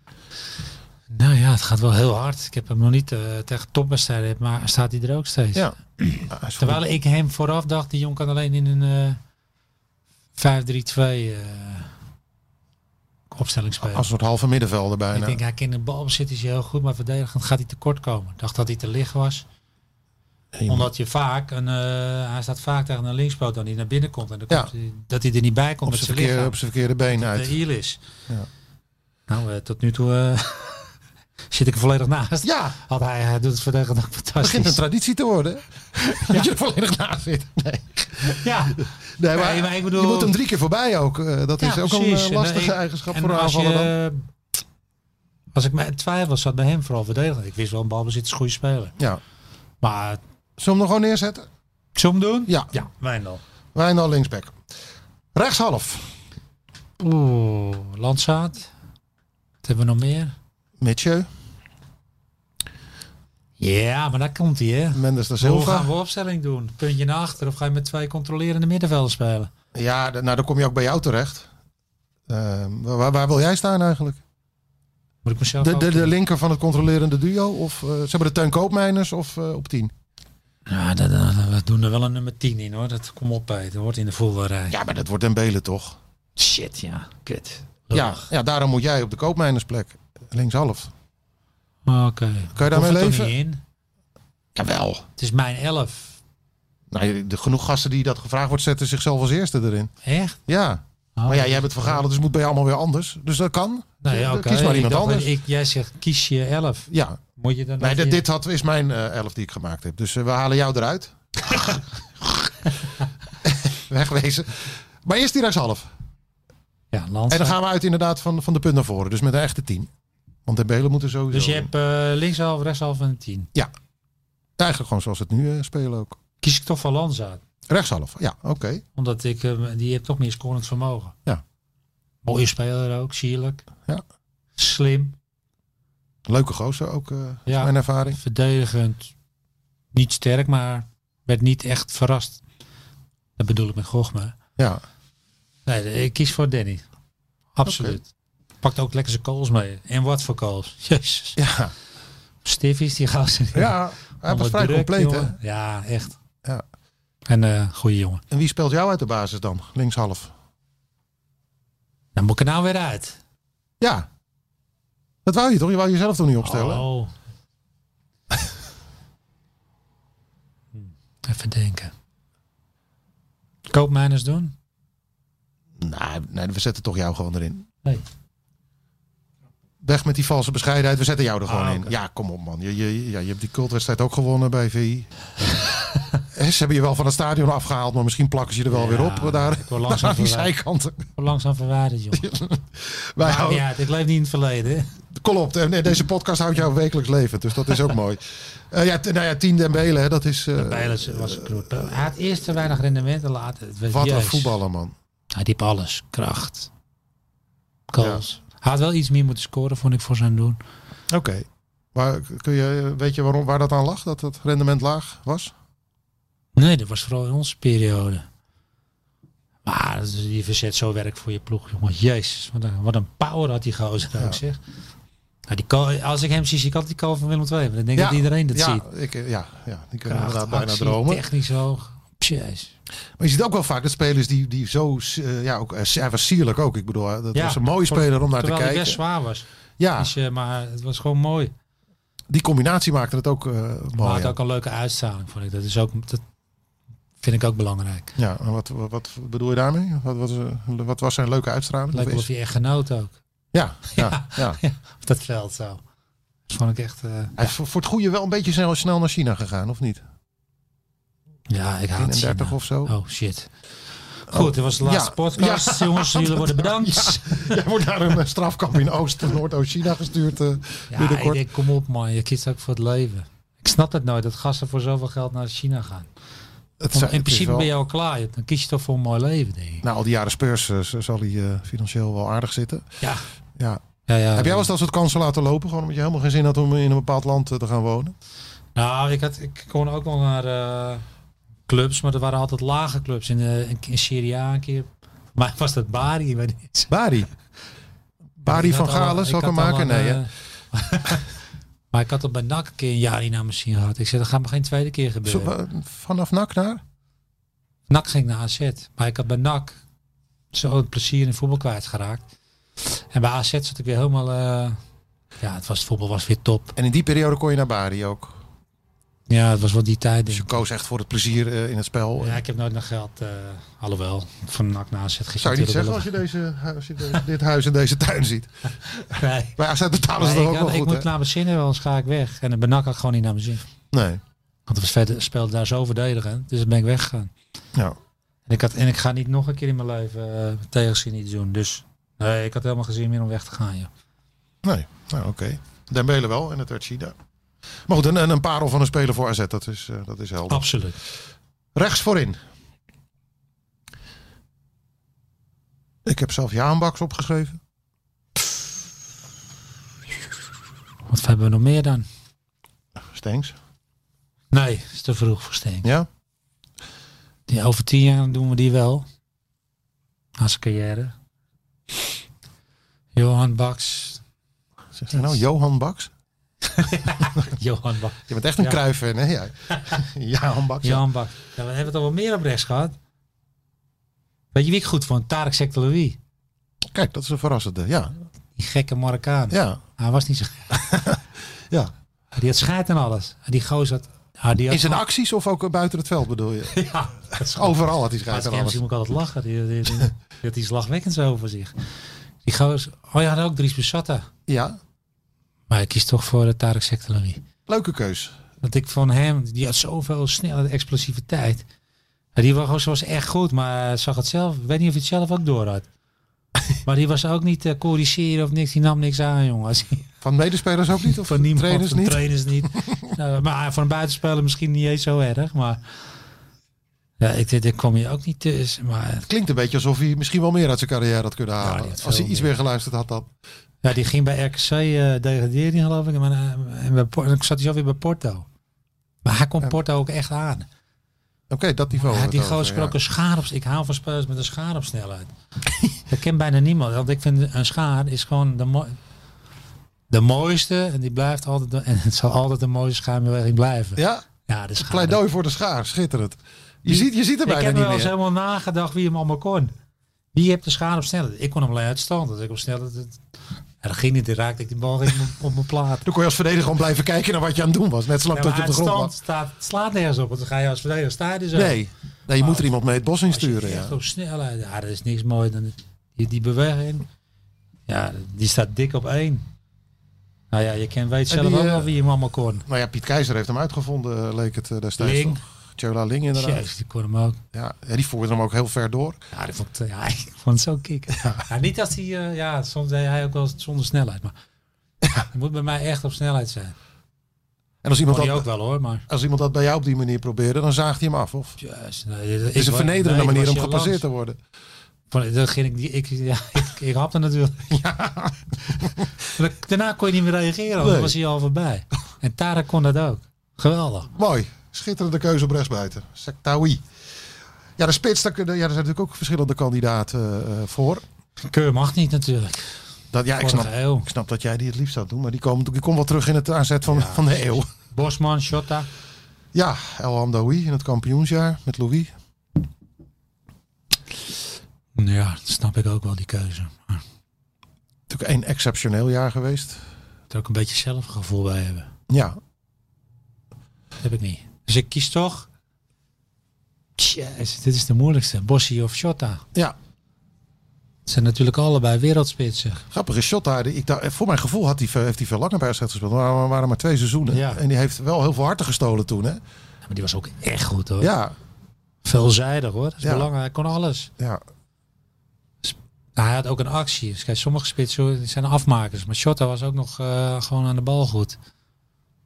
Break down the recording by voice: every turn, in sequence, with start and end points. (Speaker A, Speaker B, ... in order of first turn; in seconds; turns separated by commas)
Speaker A: 1.1-9.2, Speaker B: 6.3-6.8, Speaker A: 10.4-11.9, Speaker A: 13.3-14.1, Speaker B: 13.8-15.4, Speaker A: 15.1-19.4, Speaker B: 20.5-20.9, Speaker A: 20.7-26.6, Speaker B: 25.9-27.6, Speaker A: 27.1-28.0, Speaker A: 29.3-30.9, Speaker A: 31.5-34.8, Speaker B: 32.4-32.8, Speaker B: 34.4-43.9, Speaker A: 36.1-36.5, Speaker A: 38.3-40.4, Speaker A: 41.6-44.2, Speaker A: 45.5-48.9, Speaker A: 49.8-50.2, Speaker B: 50.6-51.5, Speaker A: 52.0-53.4, Speaker B: 53.7-54.6, Speaker B: 55.3-56.1, Speaker A: 57.0-58.7, Speaker A: 59.6-60.4, Speaker B: 60.8-61.3, Speaker A: 63.6-69.5, Speaker B: 64.9-65.9, Speaker B: 69.7-71.5, Speaker B: 72.3-74.2, Speaker A: 75.2-76.1, Speaker B: 75.6-79.9, Speaker A: 80.7-84.8, Speaker B: 84.7-86.0, Speaker A: 86.4-88.3, Speaker B: 87.9-90.9, Speaker A: 91.9-93.6, Speaker B: 92.6-93.3, Speaker B: 94.5-95.0, Speaker A: 95.2-96.2, Speaker B: 96.9-99.9, Speaker A: 100.0-100.4, Speaker B: 100.5-105.3, Speaker A: 101.2-102.0, Speaker A: 104.0-108.2, Speaker B: 106.9-107.2, Speaker B: 107.8-111.8, Speaker B: 113.4-115.9, Speaker A: 116.9-117.6, Speaker B: 117.3-119.9, Speaker B: 120.5-121.7, Speaker A: 121.3-123.5, Speaker B: 124.6-126.2, Speaker A: 126.4-127.4, Speaker B: 127.7-128.8, Speaker A: 128.9-131.2, Speaker A: 132.2-133.6, Speaker A: 134.6-135.2, Speaker B: 136.3-138.2, Speaker A: 137.5-139.1, Speaker A: 139.9-142.4, Speaker A: 143.4-144.4, Speaker A: 145.7-146.8, Speaker A: 147.6-148.1, Speaker B: 147.7-148.0, Speaker A: 148.6-151.4, Speaker B: 151.4-151.7, Speaker A: 152.4-156.2, Speaker B: 153.5-155.4, Speaker A: 157.3-158.2, Speaker B: 158.3-160.3, Speaker A: 162.2-163.2, Speaker B: 163.8-164.1, Speaker B: 165.2-166.8, Speaker A: 166.4-167.1, Speaker A: 170.8-171.9, Speaker A: 173.7-174.5, Speaker B: 175.8-177.7, Speaker B: 179.8-185.1, Speaker A: 181.5-181.9, Speaker B: 186.3-191.1, Speaker A: 188.7-190.5, Speaker A: 191.2-192.3, Speaker B: 192.1-193.7, Speaker A: 193.2-194.9, Speaker B: 195.1-201.8, Speaker A: 200.6-204.6, Speaker B: 203.9-204.9, Speaker A: 205.3-206.7, Speaker A: 207.9-210.6, Speaker B: 211.1-215.5, Speaker A: 216.6-218.3, Speaker A: 219.7-224.6, Speaker A: 225.5-228.8, Speaker B: 228.0-231.2, Speaker A: 230.1-232.7, Speaker B: 233.2-239.0, Speaker A: 237.3-239.4, Speaker B: 239.8-240.1, Speaker A: 240.0-241.5, Speaker B: 242.3-244.4, Speaker A: 244.0-246.2, Speaker A: 247.2-248.1, Speaker B: 248.2-252.3, Speaker A: 251.9-253.2, Speaker B: 253.5-254.6, Speaker A: 253.9-255.8, Speaker A: 256.5-257.5, Speaker B: 257.4-260.0, Speaker A: 261.5-263.5, Speaker B: 262.0-262.9, Speaker A: 264.3-267.6, Speaker B: 264.3-271.4, Speaker A: 270.9-276.1, Speaker B: 276.8-277.7, Speaker A: 276.9-279.9, Speaker B: 279.8-282.9, Speaker A: 284.1-284.7, Speaker B: 284.4-288.1, Speaker A: 288.8-291.0, Speaker A: 291.7-296.9, Speaker B: 296.9-297.3, Speaker B: 298.4-300.2, Speaker A: 298.4-301.3, Speaker A: 301.9-305.5, Speaker B: 305.2-306.8, Speaker A: 307.9-309.8, Speaker A: 310.5-312.2, Speaker A: 312.8-314.8, Speaker A: 315.4-316.8, Speaker B: 316.8-318.4, Speaker A: 319.3-320.6, Speaker B: 320.3-322.4, Speaker A: 322.2-326.1, Speaker B: 325.4-328.7, Speaker A: 328.9-329.6, Speaker B: 329.6-331.1, Speaker A: 330.2-333.6, Speaker B: 333.9-334.2, Speaker A: 334.7-337.3, Speaker A: 338.5-343.9, Speaker B: 344.6-347.1, Speaker B: 347.9-350.7, Speaker A: 350.5-351.0, Speaker B: 351.8-352.4, Speaker B: 356.1-357.6, Speaker A: 361.1-362.1, Speaker B: 363.0-363.5, Speaker A: 364.5-365.9, Speaker A: 367.5-369.1, Speaker A: 370.4-371.1, Speaker A: 373.1-374.2, Speaker B: 375.0-376.1, Speaker A: 376.6-378.8, Speaker B: 378.3-381.1, Speaker A: 380.8-382.9, Speaker A: 384.5-386.2, Speaker B: 386.9-388.1, Speaker A: 388.6-391.0, Speaker B: 389.5-389.8, Speaker B: 390.7-391.9, Speaker A: 392.3-395.0, Speaker B: 394.7-396.8, Speaker A: 396.7-401.7, Speaker B: 397.3-398.8, Speaker A: 402.4-404.3, Speaker B: 404.5-404.8, Speaker A: 405.7-407.4, Speaker B: 407.7-408.4, Speaker A: 408.6-411.6, Speaker A: 412.4-415.9, Speaker A: 416.8-420.1, Speaker B: 420.2-422.9, Speaker A: 421.1-425.9, Speaker A: 427.2-429.3, Speaker B: 429.3-433.3, Speaker A: 431.6-432.5, Speaker A: 433.8-438.5, Speaker A: 439.2-440.7, Speaker B: 441.5-442.9, Speaker A: 442.0-445.3, Speaker A: 446.1-449.0, Speaker A: 450.1-455.2, Speaker B: 454.0-454.2, Speaker B: 454.8-458.1, Speaker A: 456.9-459.7, Speaker A: 460.3-463.2, Speaker A: 463.8-466.1, Speaker B: 466.1-469.1, Speaker A: 468.3-471.8, Speaker B: 471.5-474.0, Speaker A: 472.4-477.1, Speaker A: 477.9-479.5, Speaker A: 480.5-482.7, Speaker B: 481.3-481.9, Speaker B: 482.7-486.6, Speaker A: 485.0-485.4, Speaker A: 486.4-487.4, Speaker B: 487.5-489.2, Speaker A: 489.3-494.4, Speaker A: 495.2-496.8, Speaker B: 497.8-498.5, Speaker A: 498.1-499.1, Speaker B: 499.1-501.6, Speaker A: 501.6-504.0, Speaker B: 502.6-504.4, Speaker A: 505.1-507.7, Speaker B: 507.7-509.1, Speaker A: 509.3-514.1, Speaker B: 510.8-511.2, Speaker B: 514.1-516.8, Speaker B: 517.8-521.0, Speaker A: 521.4-522.8, Speaker B: 523.1-527.7, Speaker A: 523.4-524.1, Speaker A: 526.9-528.9, Speaker B: 529.5-532.1, Speaker A: 535.0-537.0, Speaker B: 538.1-539.8, Speaker A: 540.3-541.9, Speaker B: 542.1-542.4, Speaker A: 544.0-545.5, Speaker A: 547.0-549.4, Speaker A: 551.1-552.8, Speaker B: 552.9-559.4, Speaker A: 557.3-557.6, Speaker A: 559.9-561.1, Speaker B: 561.0-561.4, Speaker A: 562.0-564.1, Speaker B: 563.0-563.3, Speaker A: 565.6-571.4